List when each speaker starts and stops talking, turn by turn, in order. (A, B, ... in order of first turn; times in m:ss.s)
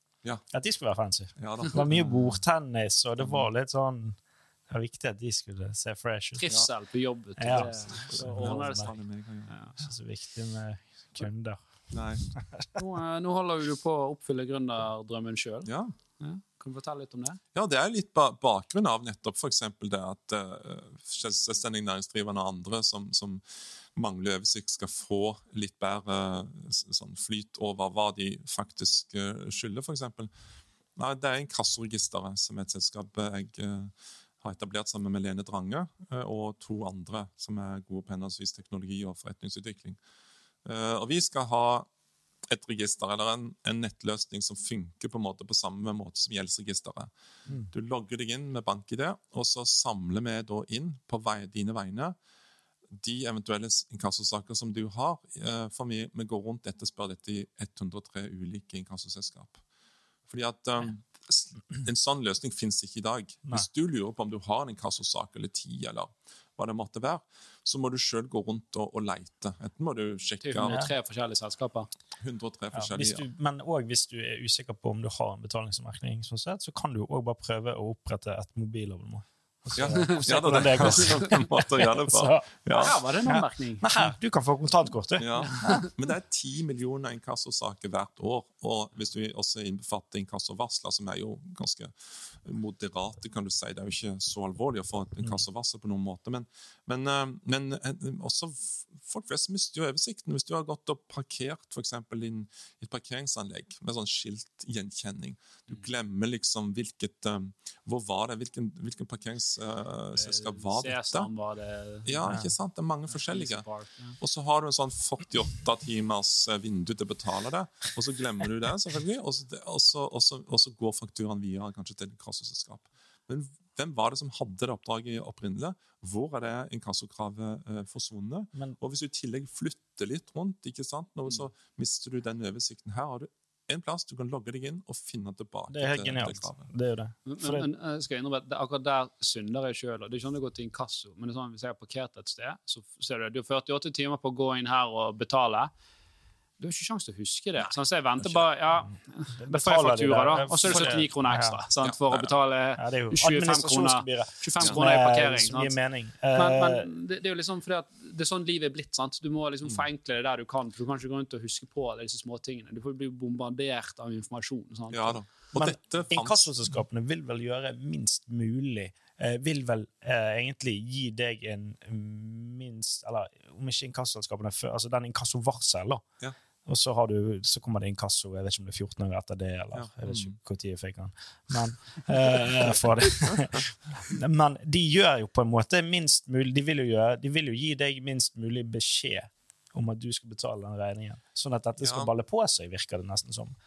0:00.5-0:06.5 A
0:01.4-0:02.4 B
0:03.2-0:03.5 B
0:06.4-0:09.8 C
0:07.4-0:08.9 A
0:07.5-0:09.5 B
0:09.8-0:12.8 A
0:11.9-0:12.3 B
0:12.8-0:17.4 C
0:15.6-0:15.9 B
0:17.5-0:30.3 B
0:31.0-0:40.0 B
0:40.6-0:41.9 B
0:42.4-0:47.1 B
0:47.7-0:52.2 B
0:52.9-0:59.6 B
1:00.3-1:10.8 B
1:10.4-1:11.9 C
1:12.2-1:13.2 B
1:12.7-1:25.8 A
1:19.7-1:23.0 B
1:19.9-1:20.2 C
1:20.8-1:21.2 C
1:22.7-1:23.9 C
1:25.2-1:51.3 B
1:25.6-1:25.9 C
1:50.1-1:52.3 C
1:52.0-1:53.6 B
1:52.2-1:52.5 A
1:53.1-1:54.2 C
1:54.2-2:16.7 B
2:15.7-2:17.7 A
2:17.2-2:25.7 C
2:26.6-2:35.8 C
2:27.6-2:28.5 B
2:29.4-2:31.6 A
2:31.8-2:32.3 B
2:32.8-2:36.9 A
2:36.3-2:45.2 C
2:44.9-2:46.5 B
2:45.5-2:56.0 A
2:56.6-3:13.5 A
2:59.7-3:00.4 B
3:11.8-3:12.1 B